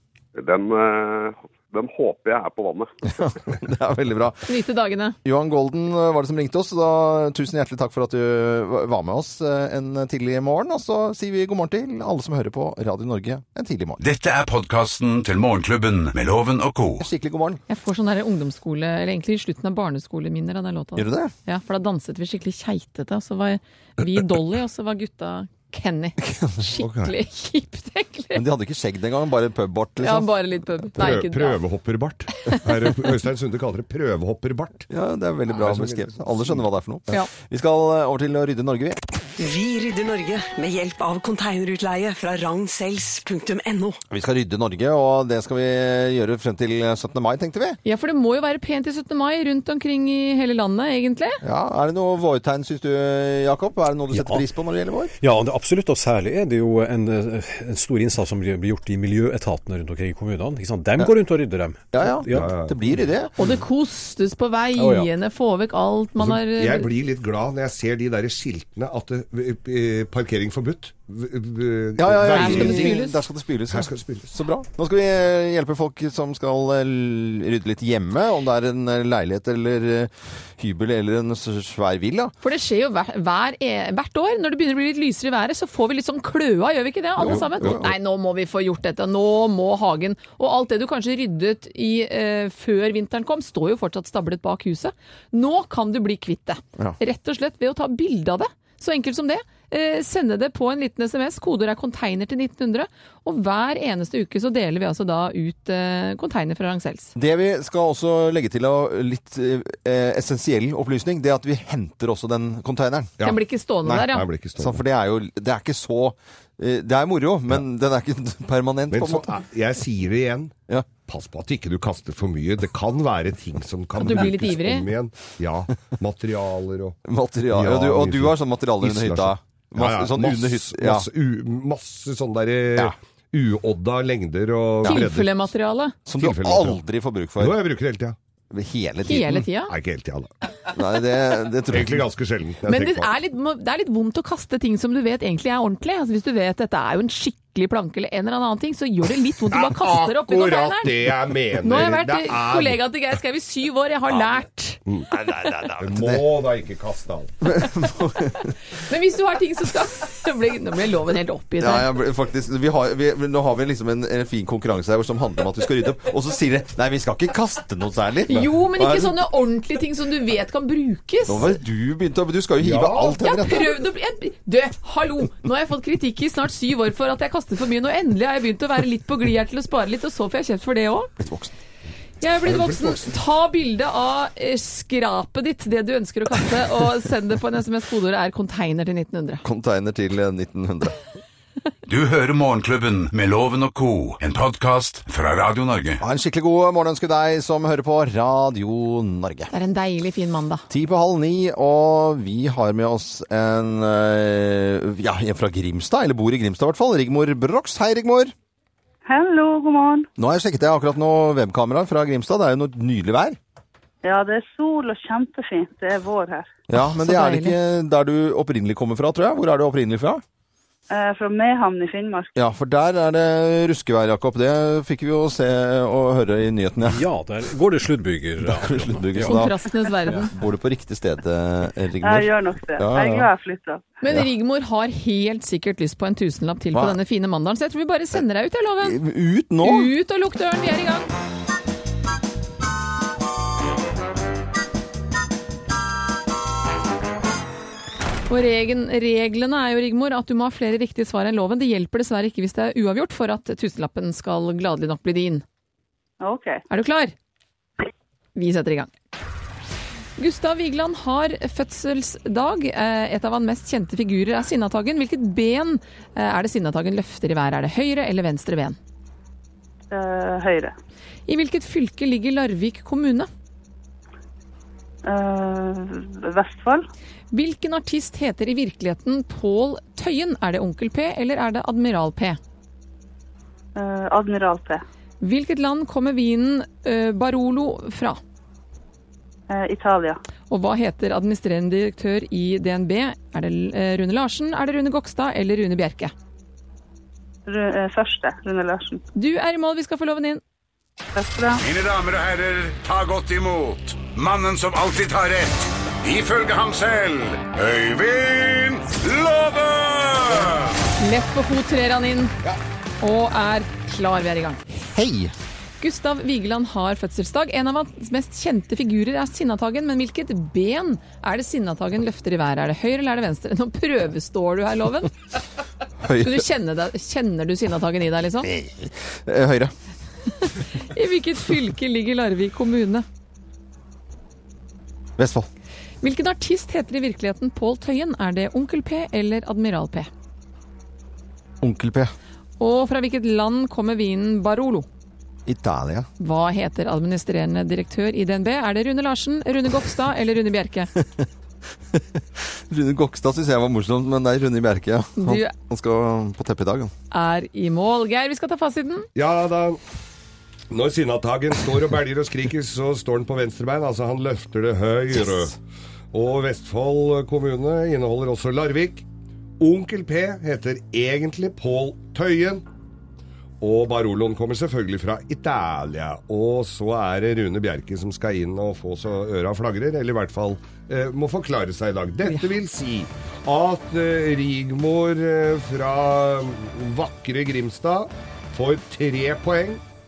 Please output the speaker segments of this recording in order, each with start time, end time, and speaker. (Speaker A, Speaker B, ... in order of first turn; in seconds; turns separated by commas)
Speaker A: 0.3-2.9, Speaker B: 3.1-4.5, Speaker C: 4.5-5.2, Speaker B: 5.2-14.0, Speaker D: 14.0-17.1, Speaker B: 17.0-17.6, Speaker C: 17.7-28.4, Speaker B: 20.9-21.3, Speaker B: 26.2-26.8, Speaker E: 26.8-27.1, Speaker B: 28.3-30.4, Speaker C: 30.0-31.6, Speaker E: 31.0-34.9, Speaker B: 34.9-39.2, Speaker E: 35.5-36.6, Speaker F: 39.4-44.0, Speaker B: 44.1-47.8, Speaker C: 47.8-51.4, Speaker B: 51.4-55.1, Speaker G: 54.1-54.4, Speaker G: 55.2-62.5, Speaker B: 61.9-63.3, Speaker E: 62.3-62.8, Speaker C: 63.4-66.9, Speaker G: 64.8-65.1, Speaker E: 66.2-73.0, Speaker B: 72.0-82.3, Speaker C: 72.3-73.2, Speaker E: 73.7-74.3, Speaker C: 82.4-107.1, Speaker B: 87.2-87.9, Speaker B: 107.2-113.2, Speaker E: 113.2-114.8, Speaker C: 113.2-114.2, Speaker B: 114.6-119.3, Speaker E: 118.9-127.0, Speaker C: 124.0-124.9, Speaker B: 127.0-131.1, Speaker E: 127.5-135.5, Speaker C: 134.8-135.9, Speaker B: 136.1-137.6, Speaker E: 136.2-136.8, Speaker E: 137.4-138.2, Speaker B: 138.5-139.4, Speaker C: 139.0-139.7, Speaker E: 139.6-140.3, Speaker B: 140.7-142.1, Speaker E: 141.7-143.1, Speaker C: 142.6-154.8, Speaker E: 149.5-152.8, Speaker B: 155.1-156.2, Speaker E: 155.8-157.3, Speaker B: 157.4-158.5, Speaker C: 158.7-161.9, Speaker B: 161.6-169.2, Speaker C: 168.3-171.6, Speaker B: 171.2-173.7, Speaker E: 172.6-173.1, Speaker C: 173.2-181.1, Speaker B: 181.2-181.5, Speaker C: 182.2-189.4, Speaker E: 182.4-183.0, Speaker B: 189.4-191.0, Speaker D: 191.9-196.0, Speaker B: 196.0-199.5, Speaker C: 199.5-200.6, Speaker B: 200.7-208.3, Speaker H: 209.1-210.1, Speaker B: 210.2-213.4, Speaker H: 214.0-216.5, Speaker B: 216.7-220.2, Speaker C: 216.8-217.6, Speaker H: 220.9-222.3, Speaker B: 222.3-227.1, Speaker G: 226.8-229.4, Speaker B: 228.4-233.3, Speaker C: 229.2-230.3, Speaker H: 232.0-233.9, Speaker C: 234.0-239.0, Speaker B: 236.7-237.0, Speaker B: 238.8-239.9, Speaker C: 239.6-241.1, Speaker C: 248.3-255.4, Speaker H: 256.2-256.6, Speaker C: 256.7-257.1, Speaker C: 258.4-258.9, Speaker C: 260.2-268.8, Speaker H: 269.9-270.7, Speaker C: 271.3-273.3, Speaker H: 275.0-276.8, Speaker C: 277.3-282.4, Speaker H: 283.7-284.8, Speaker C: 285.2-288.2, Speaker H: 289.5-290.2, Speaker C: 290.5-296.1, Speaker H: 297.5-299.0, Speaker C: 299.1-300.4, Speaker H: 301.1-301.6, Speaker D: 301.6-310.7, Speaker C: 311.0-312.3, Speaker C: 313.0-314.6, Speaker B: 314.7-315.3, Speaker C: 315.8-325.1, Speaker B: 326.0-326.4, Speaker C: 326.1-328.5, Speaker B: 328.4-329.7, Speaker C: 330.4-333.0, Speaker B: 335.2-335.5, Speaker C: 336.0-340.1, Speaker B: 341.6-342.1, Speaker C: 342.6-344.9, Speaker B: 345.4-346.1, Speaker C: 346.2-350.9, Speaker B: 350.9-351.3, Speaker B: 351.9-356.9, Speaker C: 355.2-355.5, Speaker C: 357.1-359.1, Speaker E: 359.1-359.8, Speaker E: 360.7-365.6, Speaker E: 366.1-369.0, Speaker E: 369.6-372.6, Speaker E: 373.6-389.8